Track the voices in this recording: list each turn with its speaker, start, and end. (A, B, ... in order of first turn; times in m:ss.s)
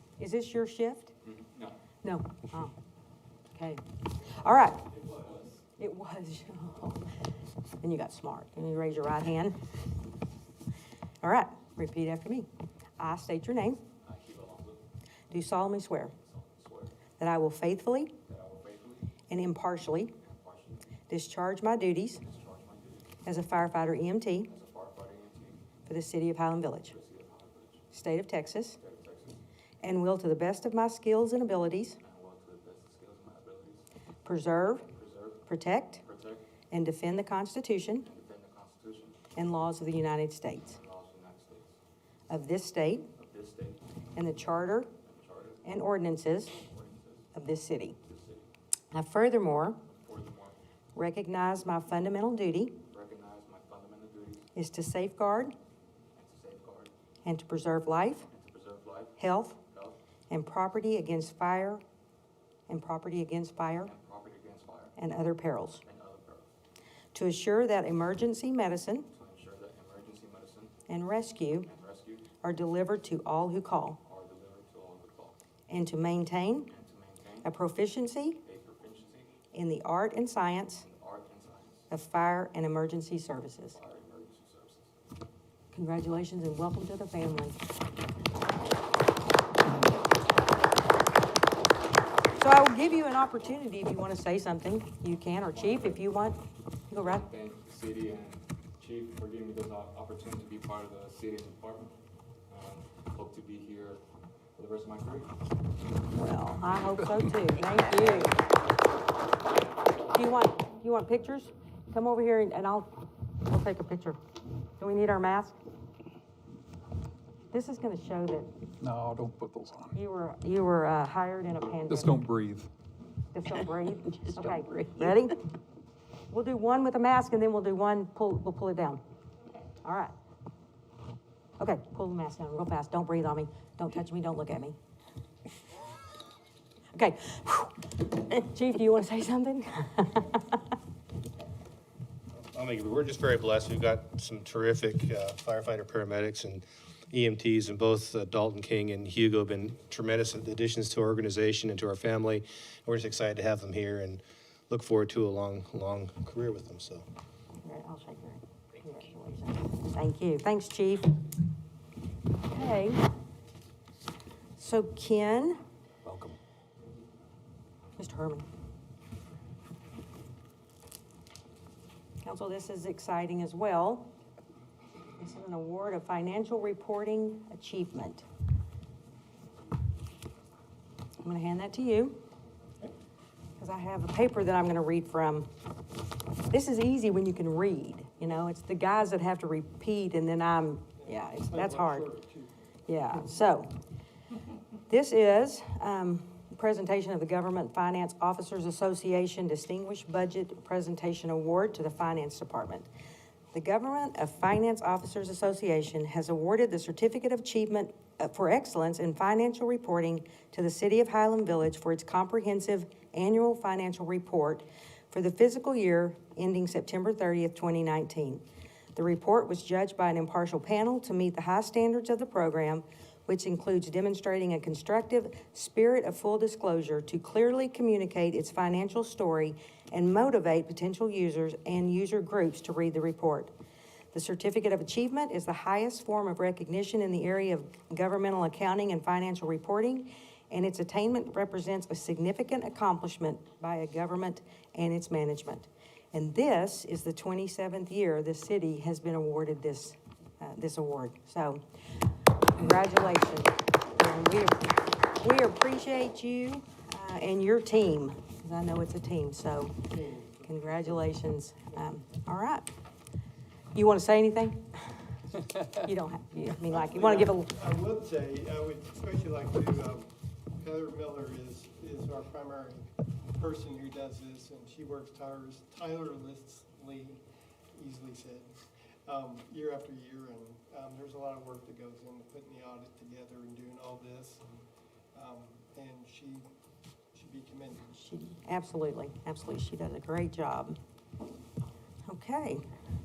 0:00.2-0:01.1 A
0:01.3-0:01.8 B
0:02.0-0:02.7 A
0:03.5-0:04.9 A
0:04.9-0:05.6 B
0:05.8-0:07.1 A
0:07.8-0:09.6 A
0:11.2-0:12.5 A
0:13.0-0:13.8 A
0:14.0-0:14.8 B
0:15.3-0:16.2 A
0:16.2-0:17.0 B
0:17.2-0:18.1 A
0:18.3-0:19.1 B
0:19.3-0:20.1 A
0:20.2-0:20.9 B
0:21.1-0:22.2 A
0:22.2-0:23.2 B
0:23.2-0:24.5 A
0:24.5-0:25.6 B
0:25.9-0:26.9 A
0:26.9-0:27.8 B
0:27.9-0:28.8 A
0:28.8-0:29.4 B
0:29.8-0:32.0 A
0:32.0-0:33.9 B
0:34.2-0:34.9 A
0:34.9-0:35.5 B
0:35.5-0:36.0 A
0:36.0-0:36.4 B
0:36.7-0:38.0 A
0:38.0-0:39.2 B
0:39.4-0:40.8 A
0:40.7-0:41.8 B
0:42.3-0:43.1 A
0:43.2-0:43.8 B
0:44.2-0:44.9 A
0:45.0-0:45.6 B
0:45.6-0:46.6 A
0:46.6-0:47.3 B
0:47.3-0:48.0 A
0:48.0-0:48.5 B
0:48.9-0:49.8 A
0:49.8-0:50.6 B
0:51.0-0:52.8 A
0:52.9-0:54.5 B
0:54.5-0:55.5 A
0:56.2-0:56.9 B
0:57.2-0:58.3 A
0:58.3-1:00.0 B
0:59.2-0:59.6 A
1:00.3-1:01.8 A
1:02.7-1:03.9 A
1:03.8-1:04.9 B
1:05.0-1:05.8 A
1:05.8-1:06.5 B
1:07.1-1:09.1 A
1:09.1-1:10.8 B
1:10.9-1:11.7 A
1:11.6-1:12.3 B
1:12.4-1:14.0 A
1:14.0-1:15.4 B
1:15.7-1:16.7 A
1:16.7-1:17.5 B
1:17.4-1:18.4 A
1:18.4-1:19.4 B
1:19.5-1:20.8 A
1:20.8-1:21.9 B
1:21.9-1:23.8 A
1:23.7-1:24.9 B
1:25.7-1:27.6 A
1:32.4-1:37.2 A
1:35.5-1:36.1 B
1:37.0-1:42.0 B
1:42.5-1:44.0 B
1:44.6-1:45.3 B
1:46.1-1:48.4 A
1:47.7-1:48.3 B
1:50.1-1:54.2 A
1:54.8-1:55.6 A
1:57.5-1:58.5 A
1:58.8-2:00.0 C
2:00.0-2:02.2 A
2:01.9-2:02.7 C
2:03.3-2:05.4 A
2:06.3-2:09.0 A
2:09.7-2:10.1 A
2:11.6-2:14.8 A
2:16.9-2:20.7 A
2:22.4-2:37.0 D
2:37.6-2:41.2 A
2:42.4-2:43.0 A
2:44.6-2:45.6 A
2:48.0-2:48.5 A
2:52.2-2:54.1 A
2:55.2-2:58.2 A
3:01.2-3:02.2 A
3:03.6-3:05.5 A
3:06.5-3:12.1 A
3:11.0-3:12.5 E
3:12.9-3:13.7 A
3:14.9-3:22.9 A
3:23.5-3:38.4 A
3:39.0-3:53.5 A
3:54.1-4:11.6 A
4:12.5-4:19.8 A
4:19.9-4:21.1 E
4:20.5-4:22.7 A
4:23.7-4:24.8 A
4:25.6-4:27.6 A
4:26.7-4:32.9 E
4:33.4-4:37.2 E
4:37.7-4:38.5 E
4:39.1-4:44.5 E
4:45.2-4:46.5 E
4:47.2-4:47.9 E
4:48.0-4:50.8 A
4:52.1-4:52.6 A